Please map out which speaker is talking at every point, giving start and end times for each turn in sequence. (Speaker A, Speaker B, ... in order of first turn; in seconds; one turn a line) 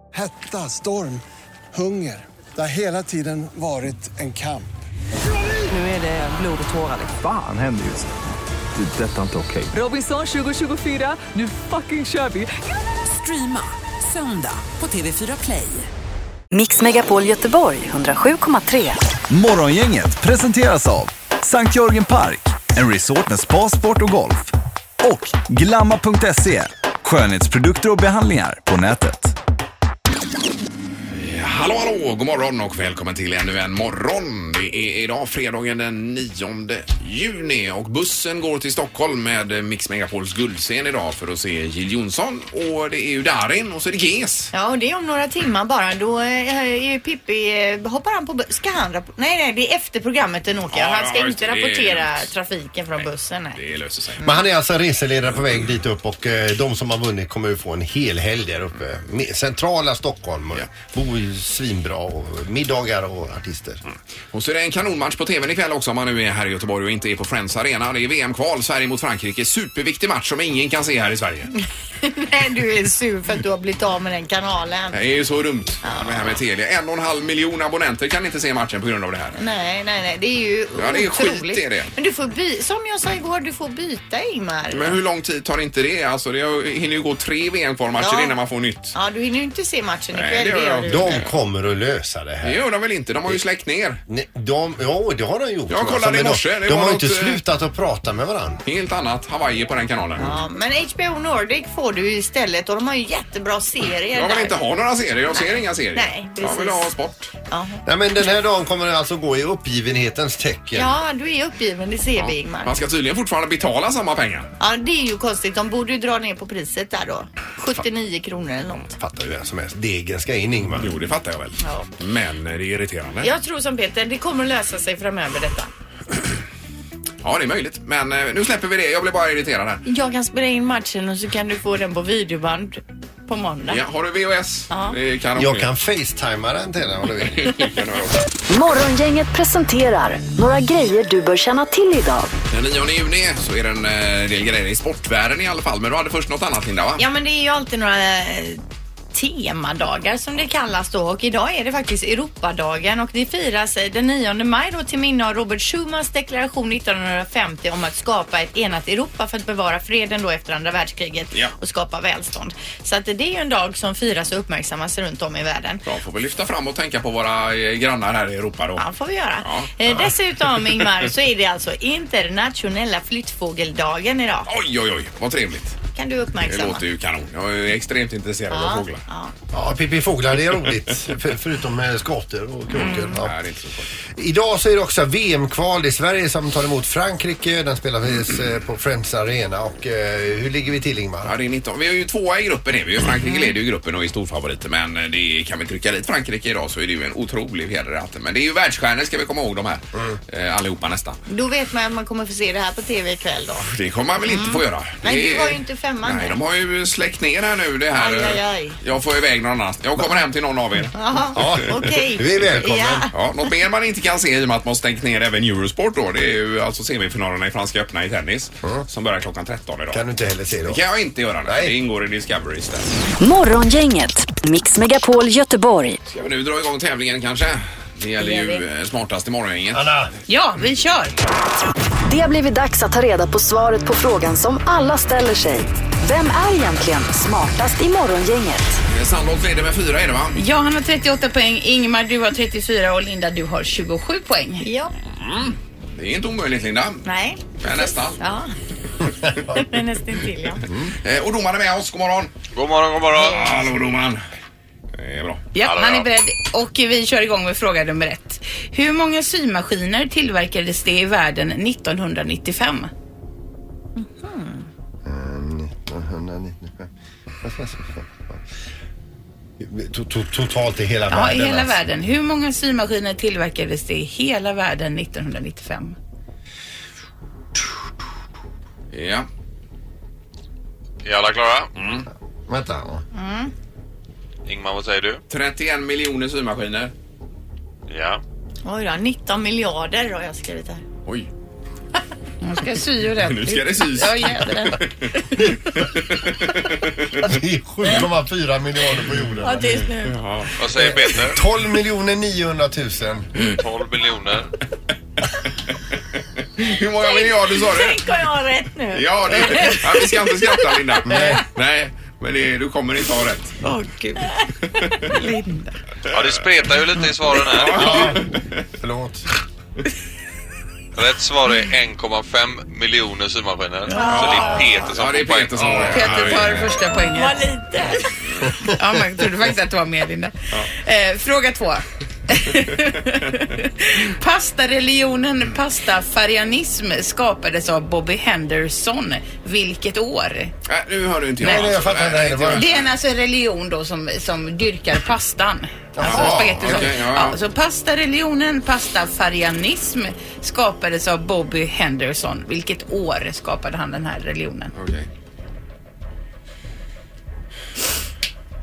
Speaker A: 0.1-1.2
Speaker A: 1.7-4.7
Speaker B: 5.7-7.0
Speaker C: 7.0-8.1
Speaker C: 8.8-10.5
Speaker B: 9.8-12.0
Speaker C: 11.5-12.5
Speaker B: 13.0-15.9
Speaker D: 16.5-19.0
Speaker E: 19.3-29.4
Speaker F: 31.1-44.5
Speaker G: 44.5-53.6
Speaker F: 50.7-52.3
Speaker F: 53.0-54.3
Speaker H: 54.2-63.8
Speaker F: 64.3-71.5
Speaker G: 72.0-75.0
Speaker F: 74.9-79.4
Speaker G: 75.8-76.3
Speaker G: 79.3-85.0
Speaker F: 80.8-81.9
Speaker F: 84.7-88.9
Speaker G: 88.0-88.4
Speaker G: 88.9-91.2
Speaker F: 90.1-91.3
Speaker H: 90.9-92.6
Speaker F: 92.4-94.0
Speaker H: 94.1-98.6
Speaker F: 95.7-97.4
Speaker F: 98.7-100.4
Speaker G: 100.2-104.6
Speaker F: 104.1-107.3
Speaker G: 105.4-106.9
Speaker G: 107.5-107.8
Speaker H: 107.9-110.9
Speaker G: 110.7-112.7
Speaker F: 112.2-114.5
Speaker G: 114.6-118.9
Speaker H: 119.0-121.0
Speaker F: 120.7-123.3
Speaker G: 121.6-121.9
Speaker G: 123.2-125.7
Speaker F: 127.2-129.8
Speaker G: 129.9-133.8
Speaker F: 133.7-135.7
Speaker G: 134.7-135.0
Speaker H: 135.4-137.7
Speaker F: 137.2-138.2
Speaker D: 138.5-142.3
Speaker F: 142.5-147.1
Speaker G: 147.0-148.6
Speaker G: 149.1-165.8
Speaker F: 165.9-168.8
Speaker G: 168.8-174.5
Speaker F: 169.4-169.7
Speaker F: 174.5-175.8
Speaker G: 175.9-176.8
Speaker F: 176.4-179.0
Speaker G: 178.5-179.3
Speaker H: 179.5-183.4
Speaker G: 182.8-183.1
Speaker F: 182.9-183.9
Speaker H: 184.2-191.3
Speaker F: 191.2-201.2
Speaker G: 201.3-203.7
Speaker F: 203.7-211.6
Speaker G: 204.2-206.4
Speaker G: 207.9-208.8
Speaker G: 210.9-213.1
Speaker H: 211.3-213.1
Speaker F: 213.1-220.1
Speaker H: 219.9-220.8
Speaker F: 220.6-223.0
Speaker H: 221.5-221.8
Speaker D: 223.2-226.0
Speaker F: 226.1-229.9
Speaker H: 229.7-230.1
Speaker I: 230.3-231.1
Speaker D: 232.1-238.8
Speaker F: 238.9-240.4
Speaker I: 240.3-244.6
Speaker G: 244.6-244.9
Speaker F: 245.2-247.0
Speaker G: 247.1-248.5
Speaker F: 247.6-248.2
Speaker G: 249.5-250.6
Speaker F: 251.0-252.3
Speaker J: 252.5-253.6
Speaker F: 253.2-254.2
Speaker G: 253.2-253.7
Speaker F: 254.9-255.5
Speaker I: 255.5-262.9
Speaker J: 255.6-256.1
Speaker G: 264.0-264.7
Speaker H: 265.0-266.9
Speaker H: 267.4-268.4
Speaker H: 269.6-271.8
Speaker I: 271.1-275.9
Speaker F: 278.9-279.3
Speaker J: 281.0-281.7
Speaker F: 281.8-282.1
Speaker H: 282.5-283.0
Speaker G: 283.1-283.5
Speaker J: 284.4-285.2
Speaker F: 285.3-286.9
Speaker J: 287.9-288.2
Speaker G: 288.6-290.8
Speaker I: 292.4-294.8
Speaker F: 293.2-297.3
Speaker H: 297.2-299.7
Speaker G: 299.4-300.2
Speaker F: 300.1-300.5
Speaker J: 300.6-301.4
Speaker H: 300.8-303.3
Speaker J: 303.5-304.5
Speaker F: 306.6-308.0
Speaker G: 307.0-311.3
Speaker F: 308.9-313.6
Speaker H: 311.1-311.4
Speaker G: 313.6-315.8
Speaker J: 316.1-318.1
Speaker F: 316.1-316.5
Speaker F: 317.4-318.6
Speaker H: 317.7-319.3
Speaker J: 320.9-325.9
Speaker G: 323.9-324.9
Speaker F: 324.1-326.8
Speaker I: 325.9-327.4
Speaker G: 327.1-328.1
Speaker I: 328.6-340.5
Speaker F: 340.7-342.8
Speaker H: 341.4-342.7
Speaker I: 342.5-354.7
Speaker H: 346.0-346.9
Speaker F: 346.0-347.4
Speaker F: 354.7-355.1